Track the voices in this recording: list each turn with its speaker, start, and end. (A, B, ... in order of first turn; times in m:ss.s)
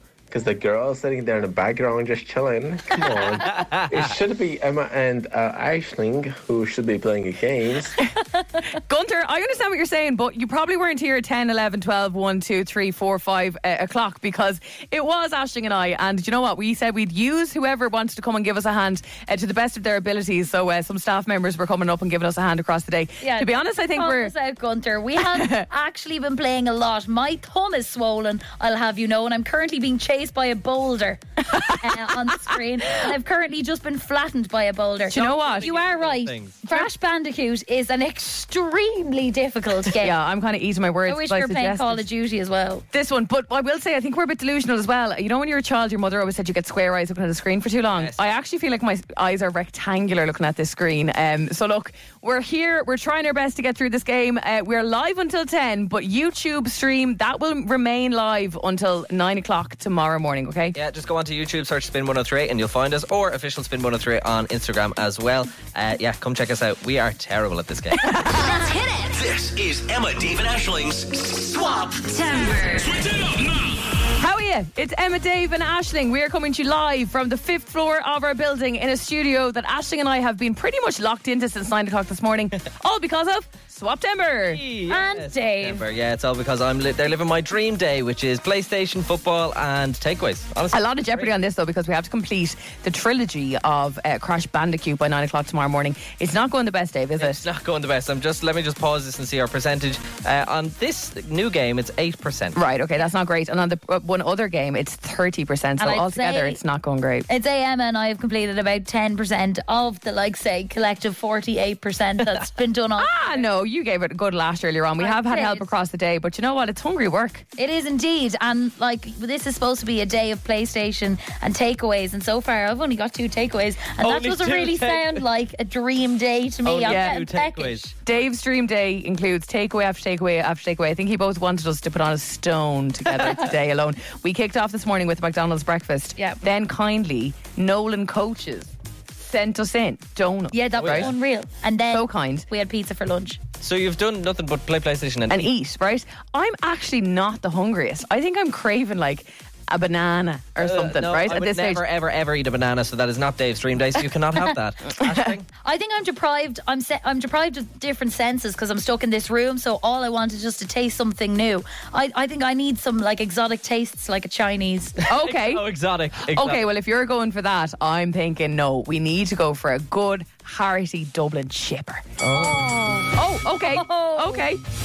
0:00.3-0:07.9 A
0:03.6-0:03.9 B
0:08.7-0:24.3 C
0:23.2-0:40.1 D
0:25.2-0:25.6 C
0:35.1-0:35.7 C
0:35.1-0:36.6 B
0:40.0-0:42.0 C
0:41.0-0:42.8 D
0:42.9-1:00.8 C
0:47.9-0:48.2 B
1:00.7-1:08.1 B
1:08.0-1:08.4 C
1:08.3-1:09.1 E
1:09.1-1:11.9 F
1:11.8-1:13.2 E
1:14.2-1:24.6 C
1:24.4-1:31.3 B
1:24.9-1:25.8 D
1:30.7-1:37.4 C
1:37.2-1:42.6 B
1:42.6-1:47.2 C
1:45.8-1:46.6 D
1:47.3-1:53.4 D
1:53.0-1:57.4 C
1:55.0-1:55.7 D
1:57.6-2:07.9 D
2:04.0-2:05.2 B
2:06.6-2:07.9 B
2:06.8-2:07.2 C
2:08.0-2:21.1 C
2:16.2-2:16.4 D
2:20.5-2:23.4 D
2:20.8-2:21.1 B
2:21.9-2:22.4 C
2:23.6-2:25.5 B
2:25.3-2:31.8 C
2:30.6-2:35.4 B
2:35.6-2:45.0 D
2:45.1-2:45.6 C
2:45.1-2:46.7 B
2:46.3-2:52.2 C
2:52.2-2:52.7 B
2:52.3-2:54.4 D
2:53.1-2:54.6 C